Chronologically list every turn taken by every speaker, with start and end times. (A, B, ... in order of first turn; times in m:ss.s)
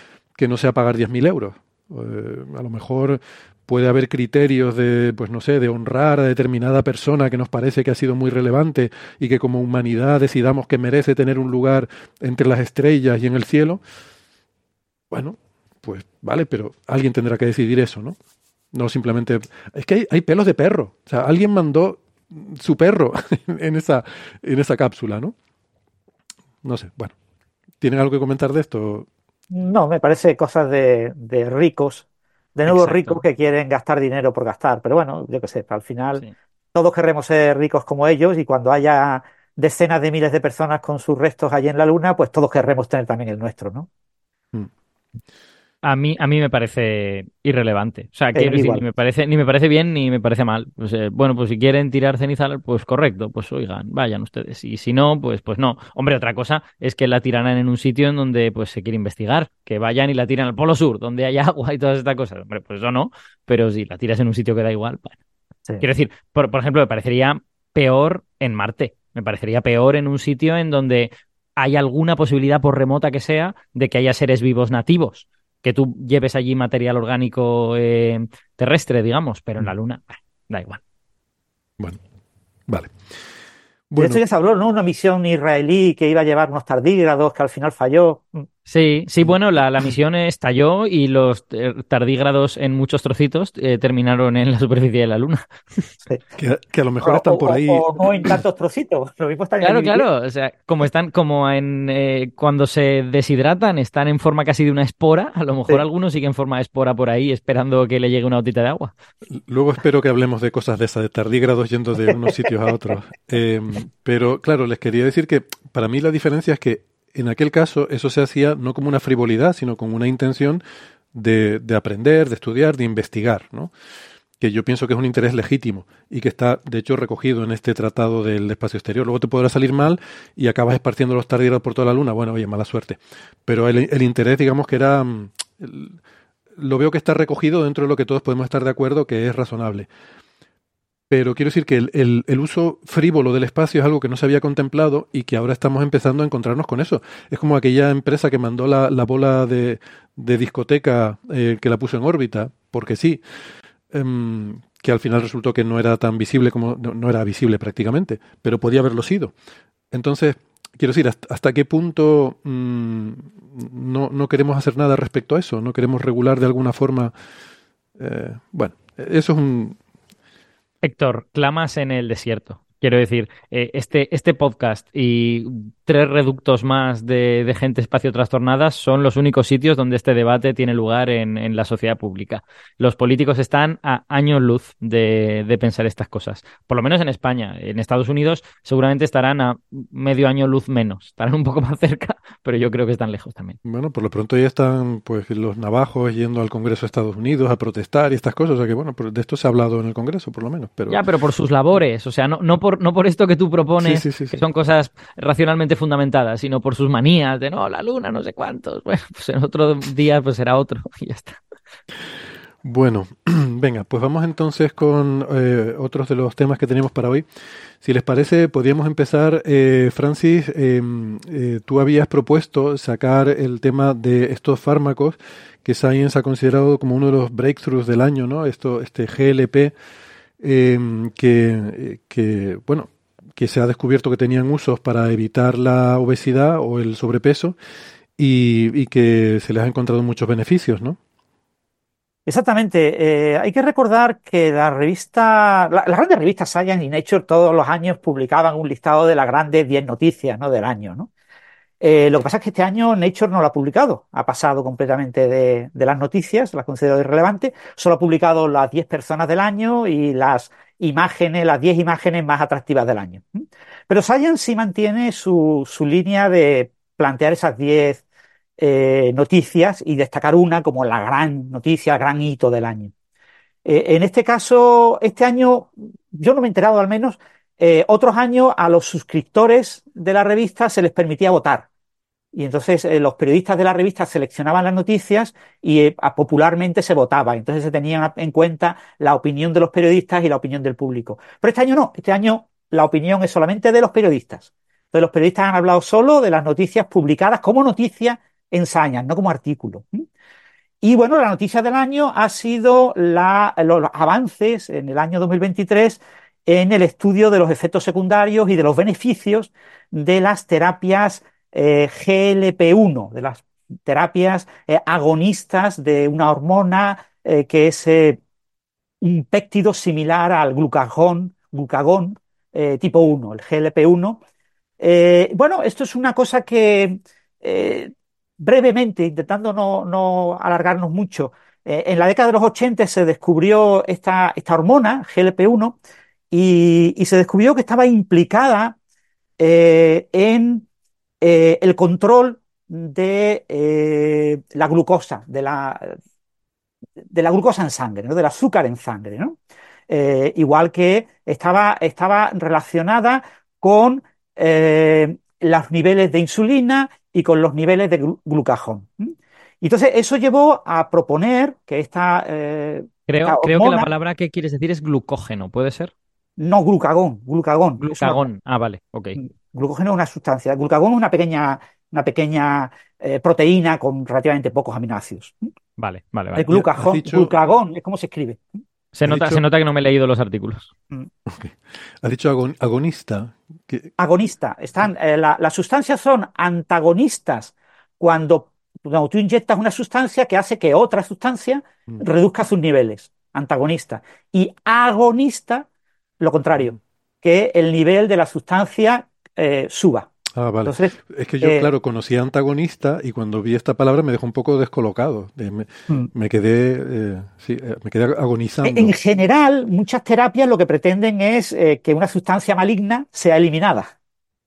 0:00.4-0:13.8 A
0:15.1-0:18.2 A
0:18.7-0:25.3 A
0:26.6-0:27.1 A
0:27.8-0:29.1 A
0:29.5-0:36.2 B
0:32.7-0:33.2 C
0:36.7-0:43.9 B
0:45.8-1:05.2 C
0:48.3-0:48.8 B
1:05.8-1:20.8 C
1:23.9-1:24.2 A
1:24.0-1:28.4 B
1:28.7-1:35.4 C
1:36.4-1:38.3 A
1:37.0-1:40.0 B
1:39.6-1:48.9 C
1:49.3-2:00.6 A
2:01.1-2:03.7 A
2:04.4-2:16.0 A
2:16.6-2:19.9 A
2:21.1-2:33.2 A
2:33.9-2:39.3 A
2:39.9-2:47.1 A
2:48.0-2:49.8 A
2:50.8-3:13.6 C
3:13.6-3:21.0 A
3:20.9-3:31.4 C
3:23.8-3:24.4 A
3:32.6-3:37.2 A
3:37.8-3:49.7 A
3:50.4-3:57.6 A
3:58.2-4:01.0 A
4:02.2-4:11.1 B
4:11.8-4:28.0 B
4:28.6-4:32.9 B
4:33.6-4:41.7 B
4:42.3-5:00.0 B
5:00.8-5:18.2 B
5:19.0-5:24.2 B
5:24.8-5:35.8 B
5:36.3-5:38.8 B
5:39.4-5:40.6 B
5:41.2-5:46.0 B
5:47.1-5:49.4 B
5:49.9-6:03.9 B
6:03.1-6:05.9 C
6:06.4-6:08.2 B
6:07.8-6:09.2 C
6:09.2-6:15.5 B
6:15.8-6:16.5 C
6:16.4-6:18.4 B
6:16.5-6:17.3 A
6:18.9-6:20.7 C
6:19.0-6:19.4 A
6:21.2-6:23.9 A
6:24.0-6:35.7 B
6:36.2-6:40.1 B
6:40.4-6:48.9 A
6:40.6-6:41.7 B
6:48.6-6:53.9 B